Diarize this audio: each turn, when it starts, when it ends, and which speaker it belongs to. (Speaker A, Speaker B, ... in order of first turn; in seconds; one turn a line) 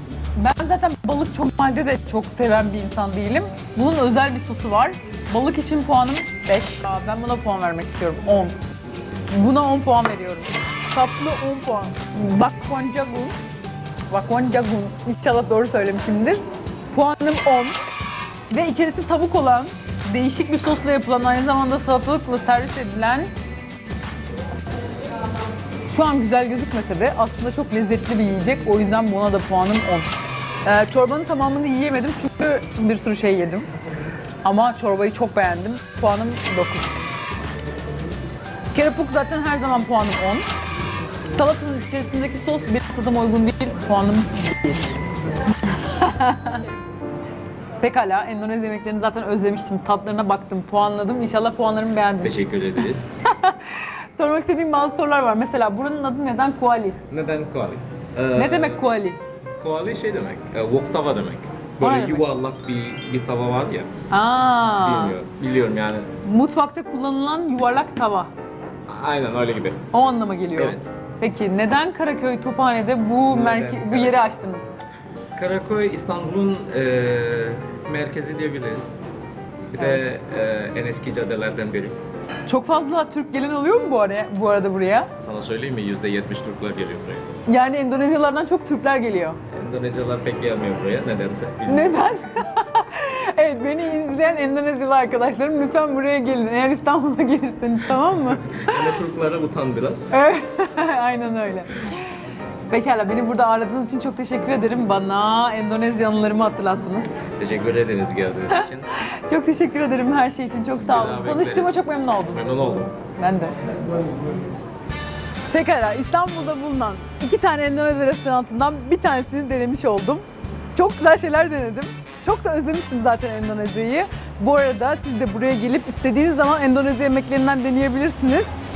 Speaker A: 0.3-8.6
Speaker A: 9.3-13.4
Speaker A: 14.1-17.8
Speaker A: 18.5-23.3
Speaker A: 25.9-30.1
Speaker A: 30.6-33.7
Speaker A: 34.4-36.9
Speaker A: 38.7-40.5
Speaker A: 41.3-45.0
Speaker A: 45.5-46.6
Speaker A: 47.8-57.0
Speaker B: 52.2-53.1
Speaker B: 57.1-58.8
Speaker A: 58.4-59.2
Speaker B: 59.6-63.9
Speaker A: 61.8-62.3
Speaker A: 64.1-65.2
Speaker B: 64.8-66.1
Speaker A: 66.2-68.3
Speaker B: 68.9-69.9
Speaker A: 69.9-74.7
Speaker B: 70.5-70.9
Speaker B: 73.3-74.3
Speaker B: 75.3-78.9
Speaker B: 79.7-82.0
Speaker A: 82.5-85.1
Speaker B: 85.2-87.3
Speaker A: 87.5-89.4
Speaker B: 89.5-92.0
Speaker A: 91.7-98.8
Speaker B: 98.5-100.2
Speaker A: 100.1-102.1
Speaker A: 102.7-107.2
Speaker B: 107.4-108.9
Speaker A: 108.5-112.4
Speaker B: 110.8-112.9
Speaker A: 113.2-113.6
Speaker A: 115.5-120.2
Speaker A: 120.8-128.5